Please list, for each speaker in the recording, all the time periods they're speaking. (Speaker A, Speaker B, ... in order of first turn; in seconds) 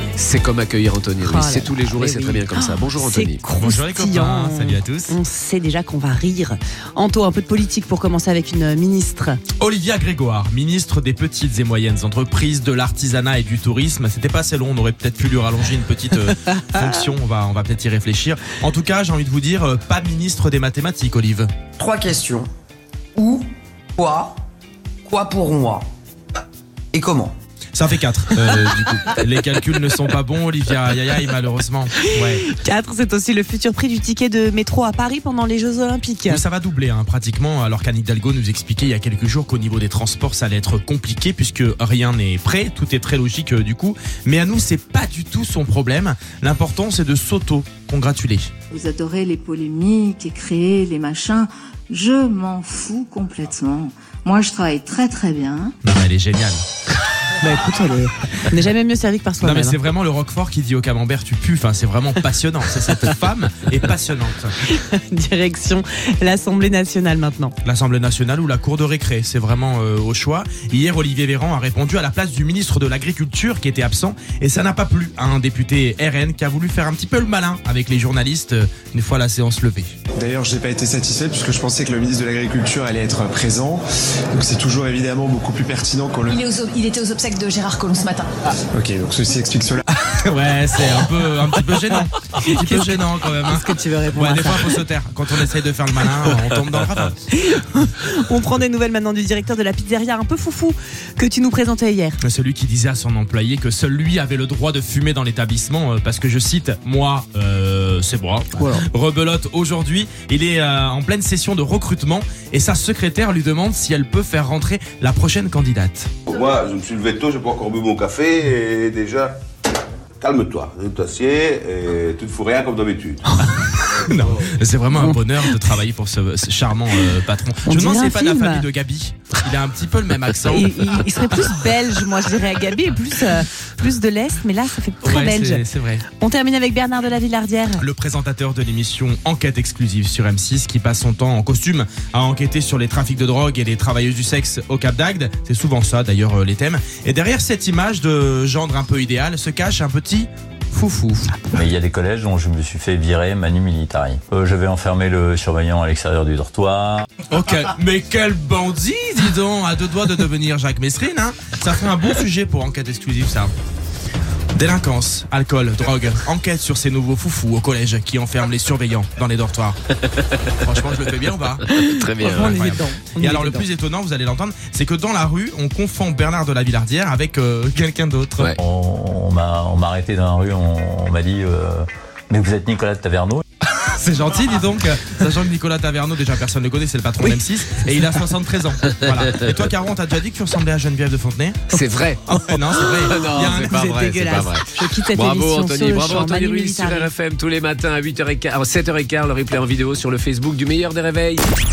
Speaker A: 0.2-3.4, 170.0-171.1, 171.7-172.6, 189.2-189.6, 191.7-192.4, 193.0-201.4
Speaker B: 1.2-9.4, 32.5-36.4, 57.4-59.8, 64.7-67.5, 92.4-94.8, 97.3-102.2, 125.0-125.2, 127.7-128.7, 130.5-135.6, 136.2-137.8, 171.8-173.7, 193.5-197.1
Speaker C: 3.6-5.2, 9.6-21.5, 27.7-32.4, 36.3-48.5, 55.8-56.6, 59.4-64.5, 67.6-79.9, 90.0-97.2, 102.2-116.1, 123.5-130.7, 135.0-136.1, 137.8-151.4, 157.3-163.5, 164.6-169.8, 170.6-178.5, 183.8-191.7, 192.3-194.1
Speaker D: 21.8-22.5, 23.2-24.4, 25.0-25.9, 26.9-27.3
Speaker E: 48.7-55.7
Speaker F: 80.2-83.8, 84.3-86.4, 88.8-89.8
Speaker G: 86.3-88.3
Speaker H: 116.3-119.4, 120.2-123.2
Speaker I: 151.5-157.1, 178.6-183.4